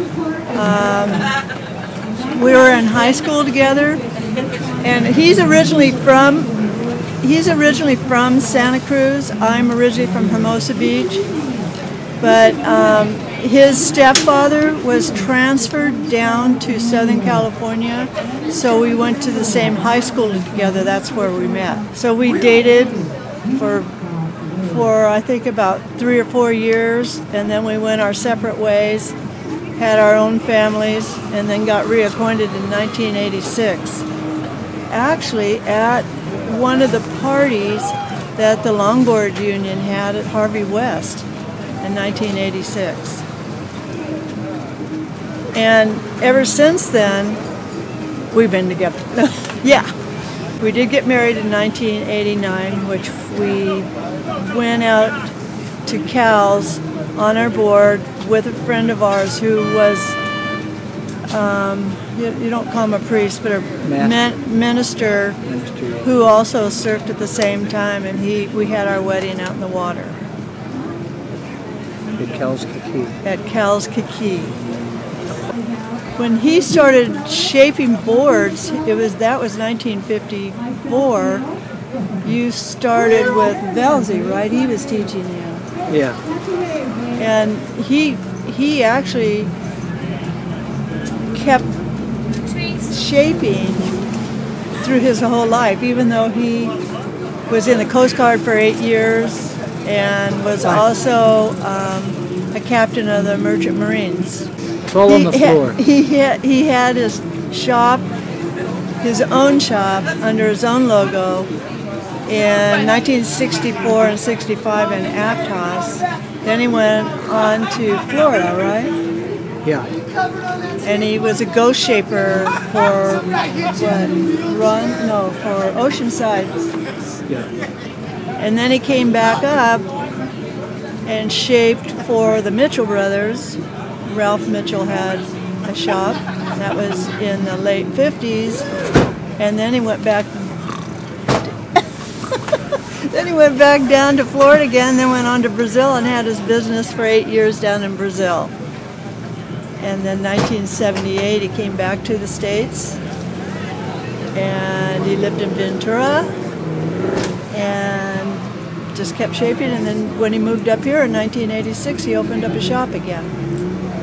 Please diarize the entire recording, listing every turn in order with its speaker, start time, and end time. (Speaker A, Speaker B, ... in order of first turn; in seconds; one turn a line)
Speaker A: 0.5-1.3
Speaker A: 2.2-4.0
Speaker A: 4.8-6.5
Speaker A: 7.2-11.2
Speaker A: 12.2-23.9
Speaker A: 24.6-29.1
Speaker A: 29.8-34.1
Speaker A: 34.9-41.3
Speaker A: 41.8-43.2
Speaker A: 45.5-47.4
Speaker A: 48.3-49.9
Speaker A: 50.6-55.3
Speaker A: 55.8-60.2
Speaker A: 61.3-65.4
Speaker B: 63.8-64.2
Speaker B: 65.5-66.1
Speaker A: 66.0-70.2
Speaker B: 72.2-73.2
Speaker A: 73.2-74.5
Speaker A: 76.2-81.5
Speaker A: 82.2-85.6
Speaker B: 85.9-86.2
Speaker A: 87.2-89.5
Speaker A: 91.3-91.7
Speaker A: 92.6-93.9
Speaker A: 94.8-96.8
Speaker A: 97.5-104.5
Speaker B: 104.9-105.8
Speaker A: 105.1-108.1
Speaker A: 109.0-111.5
Speaker A: 112.3-119.0
Speaker A: 120.8-126.7
Speaker A: 128.4-129.9
Speaker A: 131.1-138.7
Speaker A: 139.4-140.6
Speaker A: 142.7-148.5
Speaker A: 149.8-153.0
Speaker A: 154.3-156.3
Speaker A: 157.5-163.3